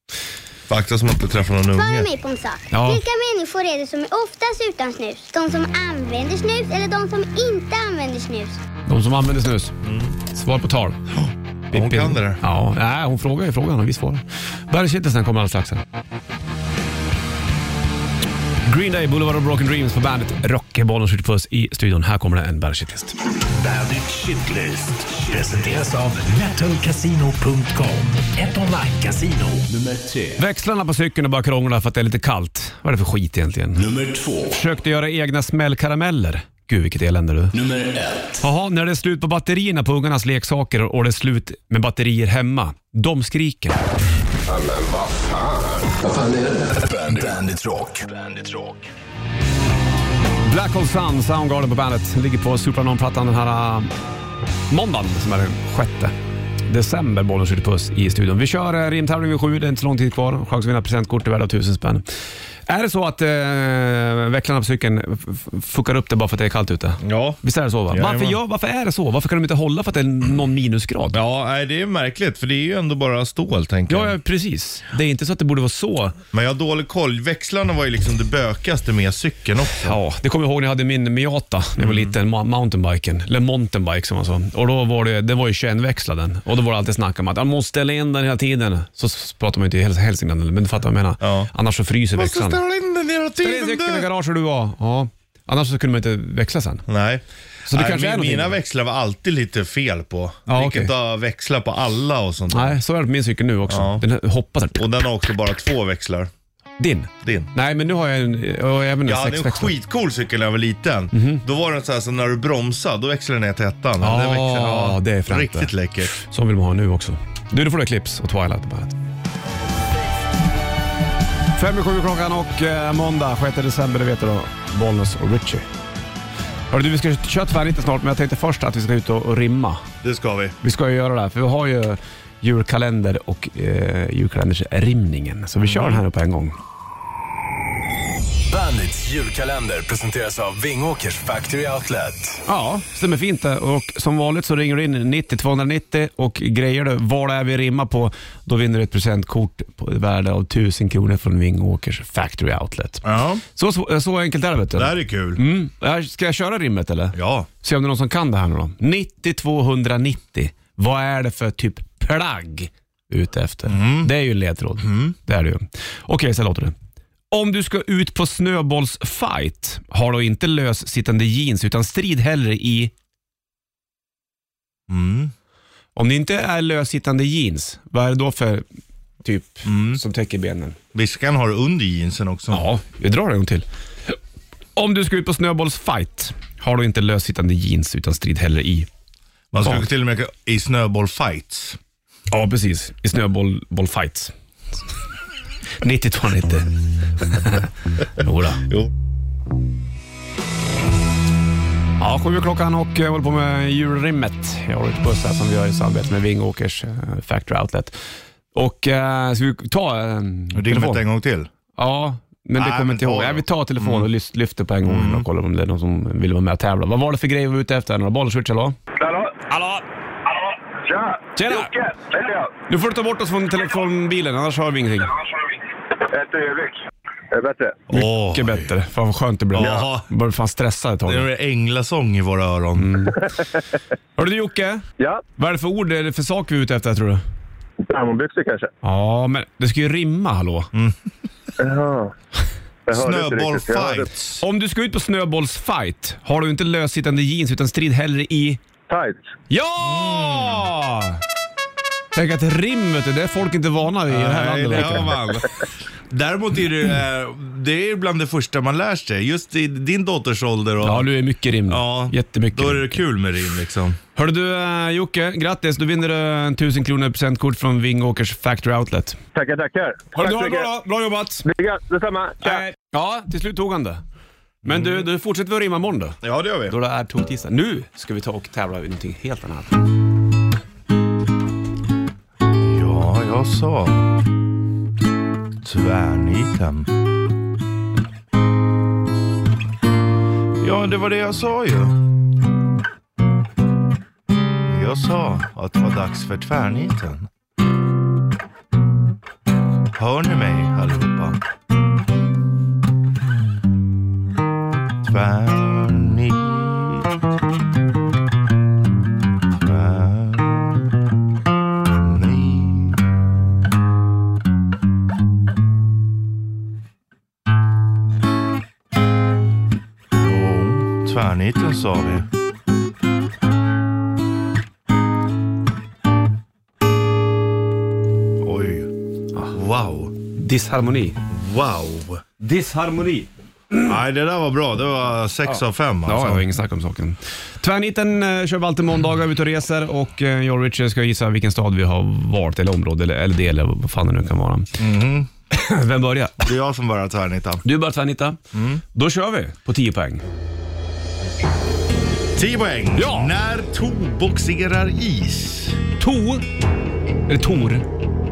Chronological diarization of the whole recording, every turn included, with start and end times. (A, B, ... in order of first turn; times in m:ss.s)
0:00.7-0:02.1 A
0:01.7-0:08.6 B
0:02.7-0:03.0 C
0:08.8-0:09.7 C
0:09.8-0:10.2 A
0:10.2-0:11.0 C
0:11.1-0:12.4 A
0:11.7-0:15.8 C
0:18.6-0:23.1 C
0:23.6-0:25.8 D
0:25.6-0:29.5 E
0:29.6-0:30.4 D
0:30.4-0:33.8 C
0:33.7-0:34.6 D
0:34.5-0:37.6 C
0:37.5-0:38.4 D
0:38.4-0:43.8 C
0:46.7-0:48.9 D
0:50.4-0:53.9 C
0:54.7-0:56.1 C
0:56.7-1:02.0 C
1:02.7-1:11.2 C
1:07.0-1:08.4 A
1:11.1-1:14.2 A
1:13.9-1:16.2 C
1:16.3-1:20.0 A
1:19.8-1:32.6 C
1:21.8-1:22.1 A
1:31.2-1:31.5 A
1:32.1-1:34.1 A
1:33.4-1:36.8 C
1:36.9-1:42.8 A
1:37.7-1:38.6 C
1:40.5-1:40.9 C
1:42.5-1:44.8 C
1:43.7-1:44.0 A
1:44.7-1:46.3 A
1:46.8-1:49.7 C
1:47.2-1:47.5 A
1:49.0-1:56.1 A
1:51.1-1:51.4 C
1:54.0-1:58.9 C
2:01.6-2:05.6 C
2:06.7-2:09.8 C
2:10.0-2:10.6 A
2:10.6-2:16.6 C
2:15.6-2:16.0 A
2:18.5-2:22.4 D
2:22.4-2:46.7 C
2:33.0-2:33.4 A
2:34.7-2:35.4 A
2:37.1-2:37.5 A
2:43.7-2:44.1 A
2:44.8-2:45.1 A
2:47.3-2:52.9 C
2:54.9-2:55.3 A
2:56.0-2:58.6 C
2:59.2-3:00.8 C
2:59.6-3:00.0 A
3:00.9-3:02.6 A
3:02.5-3:03.6 C
3:04.8-3:08.9 C
3:09.5-3:11.8 A
3:09.6-3:09.9 C
3:12.3-3:14.3 C
3:15.8-3:18.6 C
3:18.6-3:18.9 A
3:22.0-3:27.9 C
3:28.5-3:31.0 C
3:30.5-3:31.5 A
3:31.8-3:38.8 C
3:32.6-3:34.1 A
3:34.8-3:35.2 A
3:39.0-3:39.3 F
3:39.5-3:39.8 C
3:40.8-3:41.2 F
3:41.4-3:41.7 C
3:42.0-3:42.5 F
3:42.7-3:45.1 C
3:46.1-3:47.8 F
3:47.9-3:48.7 A
3:47.9-3:51.3 C
3:49.5-3:50.1 A
3:49.6-3:49.8 F
3:51.0-3:53.1 A
3:52.8-3:53.3 C
3:54.2-3:54.8 C
3:55.4-3:57.2 C
3:57.8-3:58.7 F
3:58.8-4:00.7 C
4:00.7-4:01.0 A
4:01.6-4:02.1 F
4:02.9-4:04.1 F
4:02.9-4:04.4 A
4:04.4-4:08.6 C
4:08.9-4:09.2 F
4:09.5-4:11.2 C
4:09.8-4:10.7 A
4:12.1-4:15.2 C
4:14.1-4:21.1 A
4:20.8-4:23.0 C
4:21.7-4:24.0 A
4:24.2-4:29.2 C
4:29.3-4:30.7 F
4:30.1-4:31.4 C
4:31.4-4:32.6 F
4:32.4-4:34.0 C
4:34.6-4:39.8 C
4:34.6-4:35.0 A
4:36.2-4:36.8 A
4:42.6-4:44.2 A
4:45.6-4:46.9 A
4:50.6-4:52.0 A
4:54.6-4:57.3 A
4:59.9-5:01.4 A
5:05.0-5:07.1 A
5:09.6-5:10.7 A
5:12.0-5:13.0 A
5:20.2-5:22.2 A
5:28.4-5:28.9 A
5:29.5-5:30.1 A
5:30.4-5:31.2 C
5:31.3-5:32.2 A
5:32.4-5:34.0 C
5:33.8-5:36.4 A
5:35.5-5:44.8 C
5:44.8-5:45.3 A
5:45.5-5:46.5 C
5:46.4-5:47.6 A
5:47.6-5:48.4 C
5:48.5-5:48.8 A
5:48.9-5:50.2 C
5:52.3-5:55.8 A
5:52.9-5:53.3 C
5:56.0-5:56.4 C
5:57.3-5:57.8 C